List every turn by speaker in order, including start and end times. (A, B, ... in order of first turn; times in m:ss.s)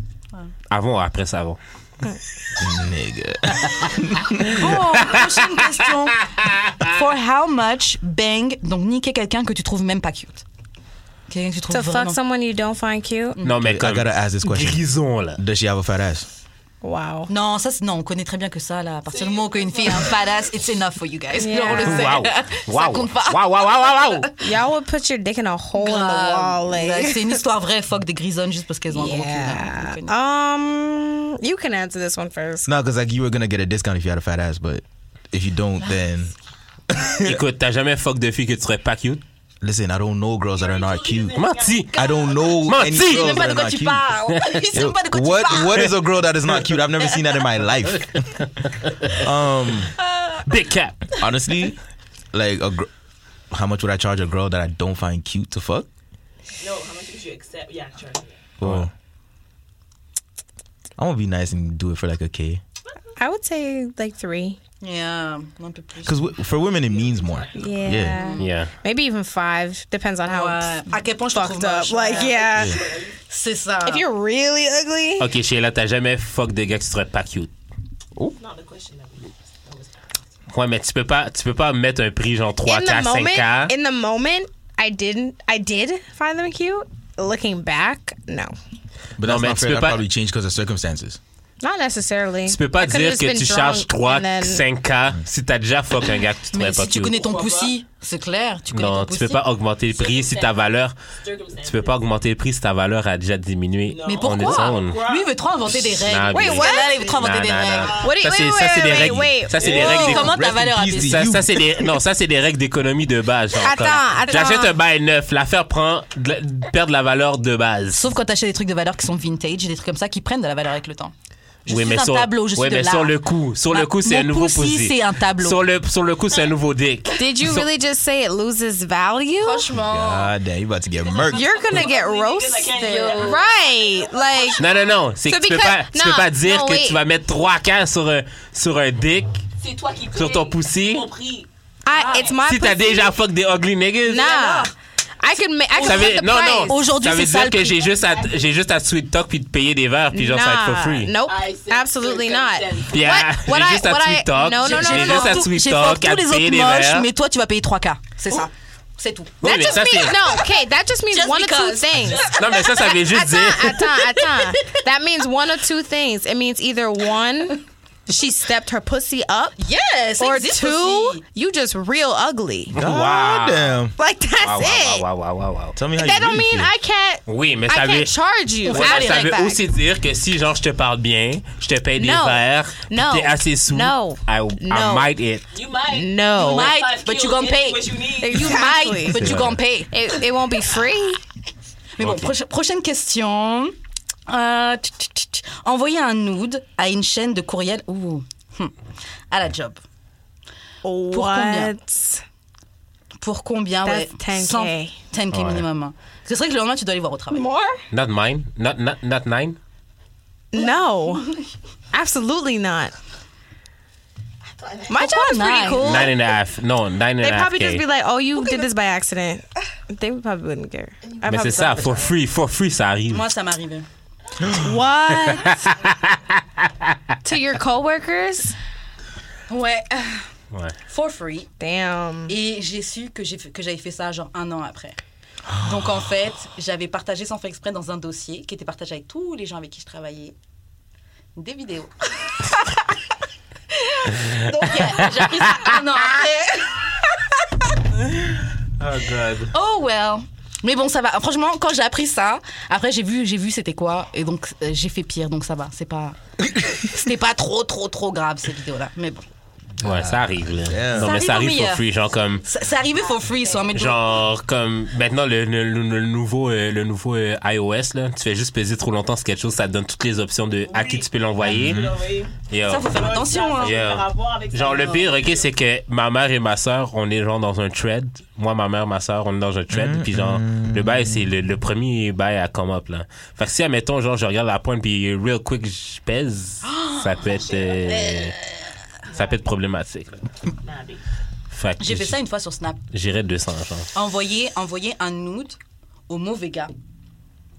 0:00.7-0:01.6 A
0:02.6-0:04.8 B
0:04.5-0:10.4 C
0:04.5-0:06.9 A
0:11.3-0:12.2 C
0:11.7-0:13.4 D
0:13.4-0:13.6 C
0:13.4-0:15.4 A
0:13.6-0:14.8 B
0:15.4-0:16.3 B
0:16.8-0:17.3 D
0:17.3-0:24.3 C
0:19.1-0:20.4 E
0:21.4-0:22.2 D
0:21.8-0:24.3 A
0:24.4-0:27.4 D
0:25.8-0:30.1 C
0:28.9-0:32.7 D
0:32.7-0:36.3 B
0:36.9-0:37.4 B
0:37.2-0:39.2 A
0:39.6-0:44.1 B
0:40.5-0:42.7 E
0:41.4-0:42.0 A
0:42.6-0:43.4 A
0:42.9-0:46.0 C
0:44.3-0:44.7 A
0:44.7-0:48.5 B
0:47.9-0:49.2 A
0:49.1-0:49.9 B
0:50.4-0:51.2 A
0:51.2-0:51.8 B
0:52.3-0:52.9 B
0:53.5-0:55.9 B
0:56.6-0:58.5 E
0:58.6-0:58.9 B
0:58.6-0:58.9 A
1:01.0-1:02.6 B
1:03.2-1:04.6 D
1:04.8-1:06.2 C
1:06.0-1:08.2 B
1:06.7-1:08.0 E
1:07.6-1:12.8 D
1:08.0-1:08.5 C
1:08.4-1:08.7 A
1:10.3-1:12.5 C
1:12.1-1:13.2 E
1:13.3-1:14.0 C
1:13.9-1:15.3 D
1:15.2-1:17.5 A
1:18.4-1:20.0 E
1:20.5-1:23.7 A
1:22.6-1:28.5 D
1:29.2-1:31.2 B
1:29.2-1:30.0 A
1:31.6-1:34.6 D
1:32.5-1:37.2 A
1:36.5-1:39.4 C
1:37.1-1:37.8 E
1:38.7-1:41.0 A
1:39.9-1:42.0 E
1:41.6-1:45.0 A
1:43.9-1:45.5 E
1:44.0-1:48.1 C
1:45.8-1:50.3 A
1:46.3-1:47.0 D
1:46.7-1:47.2 E
1:47.7-1:48.4 E
1:48.0-1:50.1 D
1:49.6-1:50.1 E
1:49.6-1:51.3 C
1:49.7-1:52.0 B
1:50.9-1:58.1 A
1:53.6-1:54.7 D
1:57.9-2:01.1 C
2:01.7-2:05.6 C
2:01.7-2:07.7 A
2:07.2-2:09.7 D
2:09.4-2:10.3 C
2:09.7-2:11.8 B
2:11.0-2:14.9 E
2:11.3-2:14.7 D
2:12.8-2:13.5 C
2:14.6-2:19.4 A
2:15.2-2:17.0 D
2:19.6-2:22.4 E
2:20.1-2:21.1 A
2:21.8-2:23.2 D
2:21.9-2:22.3 C
2:22.4-2:24.3 A
2:24.0-2:26.8 D
2:24.2-2:24.7 C
2:25.7-2:27.8 C
2:25.8-2:31.1 A
2:27.7-2:28.6 E
2:30.1-2:35.5 D
2:31.2-2:33.1 E
2:32.9-2:37.1 A
2:34.6-2:40.5 C
2:39.4-2:40.2 A
2:39.4-2:49.6 D
2:41.1-2:43.0 C
2:42.3-2:43.8 A
2:49.6-2:51.2 C
2:50.2-2:52.8 D
2:52.7-2:53.9 A
2:52.7-2:53.9 B
2:54.0-2:55.0 D
2:54.4-2:55.8 A
2:55.8-2:56.7 B
2:56.0-2:59.6 D
2:57.3-2:58.1 A
2:58.6-2:59.4 C
2:58.7-3:05.4 A
3:02.0-3:05.1 D
3:05.5-3:08.7 E
3:05.9-3:06.7 D
3:06.4-3:09.9 C
3:08.2-3:11.2 D
3:09.1-3:09.6 A
3:12.0-3:13.8 C
3:12.0-3:12.3 A
3:14.3-3:18.7 C
3:19.3-3:19.8 C
3:20.8-3:22.2 D
3:21.1-3:21.7 C
3:23.2-3:27.5 C
3:23.8-3:25.0 D
3:25.3-3:25.7 A
3:27.3-3:27.8 D
3:27.9-3:29.6 A
3:30.5-3:31.3 D
3:31.9-3:32.9 D
3:34.6-3:34.9 E
3:34.9-3:36.2 D
3:35.0-3:36.1 C
3:35.8-3:37.8 A
3:37.2-3:42.0 D
3:38.4-3:38.7 C
3:41.0-3:42.1 E
3:41.2-3:43.3 A
3:43.1-3:43.9 C
3:44.4-3:45.7 D
3:45.3-3:47.0 A
3:47.2-3:48.6 D
3:49.5-3:50.3 C
3:50.9-3:51.5 C
3:51.6-3:52.3 D
3:52.3-3:55.0 C
3:55.6-4:00.3 C
4:01.4-4:02.9 C
4:03.7-4:07.5 C
4:08.8-4:09.5 A
4:09.5-4:16.2 C
4:16.7-4:19.2 C
4:19.8-4:22.4 A
4:19.8-4:21.2 B
4:21.0-4:21.8 C
4:22.4-4:24.1 C
4:23.7-4:31.9 A
4:30.7-4:35.5 E
4:31.5-4:31.9 B
4:32.4-4:33.0 A
4:32.7-4:33.8 C
4:33.6-4:48.4 A
4:39.7-4:41.3 B
4:46.6-4:47.2 C
4:47.2-4:48.1 E
4:47.8-4:48.5 C
4:49.1-4:49.4 E
4:49.1-4:50.3 A
4:50.6-4:51.0 E
4:51.5-4:52.2 A
4:51.8-4:52.8 C
4:52.9-4:53.9 A
4:54.0-4:55.6 C
4:56.1-4:56.7 C